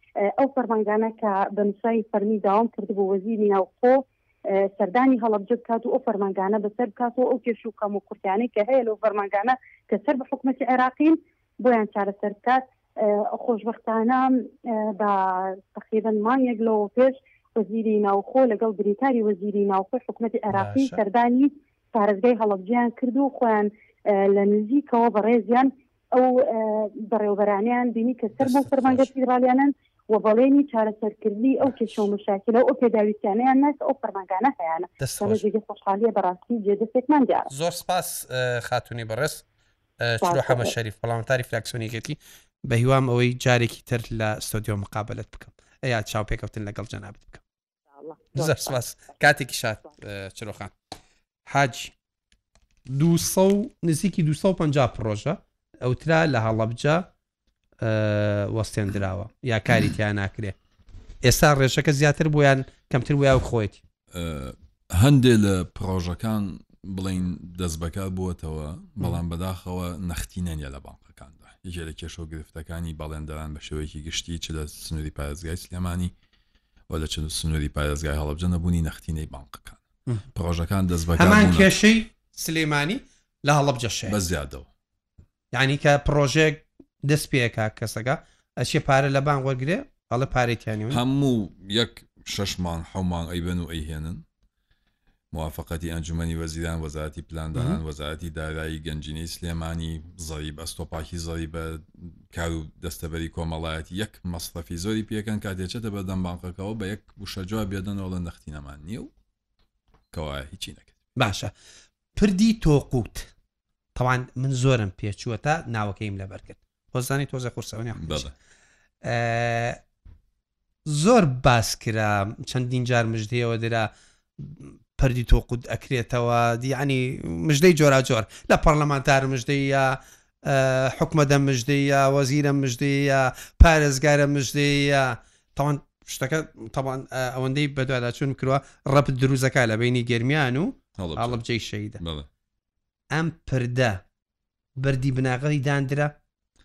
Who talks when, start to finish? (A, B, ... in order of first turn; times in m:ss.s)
0:00.2-0:37.5 A
0:20.5-0:21.0 B
0:28.4-0:29.1 B
0:35.0-0:35.4 B
0:37.5-0:39.4 B
0:40.0-0:47.4 B
0:40.2-0:40.7 A
0:48.0-0:48.7 A
0:48.3-0:50.7 B
0:51.4-0:51.9 B
0:52.9-0:57.1 B
0:57.8-1:00.6 B
1:01.2-1:03.8 B
1:04.1-1:16.1 C
1:16.9-1:19.8 C
1:20.3-1:21.7 C
1:21.2-1:24.2 B
1:24.1-1:24.7 C
1:25.5-1:31.0 B
1:30.9-1:34.2 C
1:35.3-1:49.1 C
1:37.5-1:37.8 B
1:50.1-1:50.9 C
1:51.2-1:51.5 B
1:52.1-1:53.3 B
1:53.9-1:58.3 B
1:57.9-1:58.3 C
1:59.0-1:59.8 B
2:00.8-2:22.0 B
2:21.0-2:21.4 C
2:22.0-2:22.3 C
2:23.1-2:24.0 B
2:24.8-2:26.2 B